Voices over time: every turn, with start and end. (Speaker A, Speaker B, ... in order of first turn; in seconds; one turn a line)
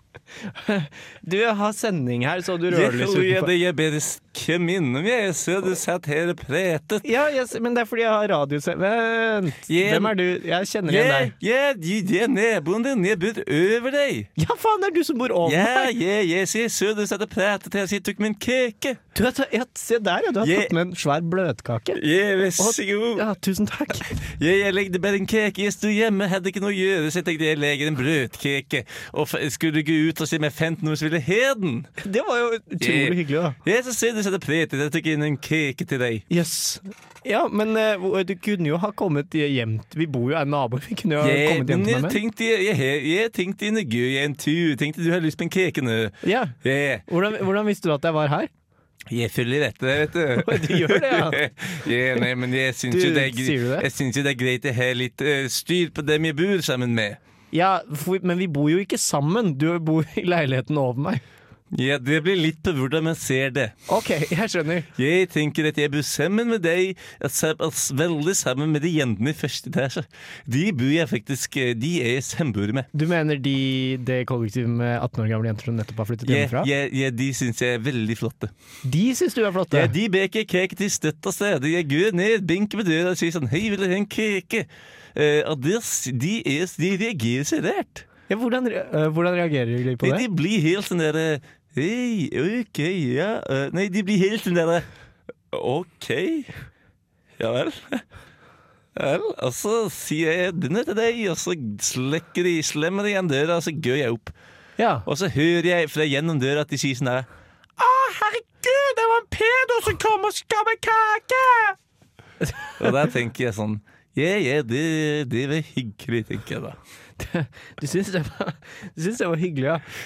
Speaker A: 0.3-3.5
Speaker B: 2.7-7.0
Speaker A: 7.0-11.3
Speaker B: 9.7-10.2
Speaker B: 10.9-14.3
Speaker A: 14.4-15.9
Speaker B: 15.4-19.0
Speaker A: 19.1-22.0
Speaker B: 20.4-20.7
Speaker B: 21.9-23.2
Speaker A: 22.6-24.2
Speaker B: 24.1-31.9
Speaker A: 32.0-33.6
Speaker B: 32.8-36.2
Speaker A: 36.3-42.2
Speaker B: 41.2-47.0
Speaker A: 46.2-48.5
Speaker B: 49.1-57.2
Speaker A: 50.4-51.4
Speaker A: 52.9-53.9
Speaker A: 57.5-61.2
Speaker B: 61.7-63.7
Speaker A: 63.9-64.9
Speaker B: 65.0-72.9
Speaker A: 72.9-76.7
Speaker B: 76.2-78.5
Speaker A: 78.8-79.9
Speaker B: 79.7-88.1
Speaker A: 88.3-90.3
Speaker B: 90.0-94.9
Speaker B: 95.5-96.5
Speaker B: 97.4-98.0
Speaker B: 99.0-104.3
Speaker A: 104.8-105.1
Speaker B: 105.1-107.3
Speaker B: 107.8-111.8
Speaker A: 112.5-112.8
Speaker B: 112.8-116.8
Speaker A: 117.2-119.8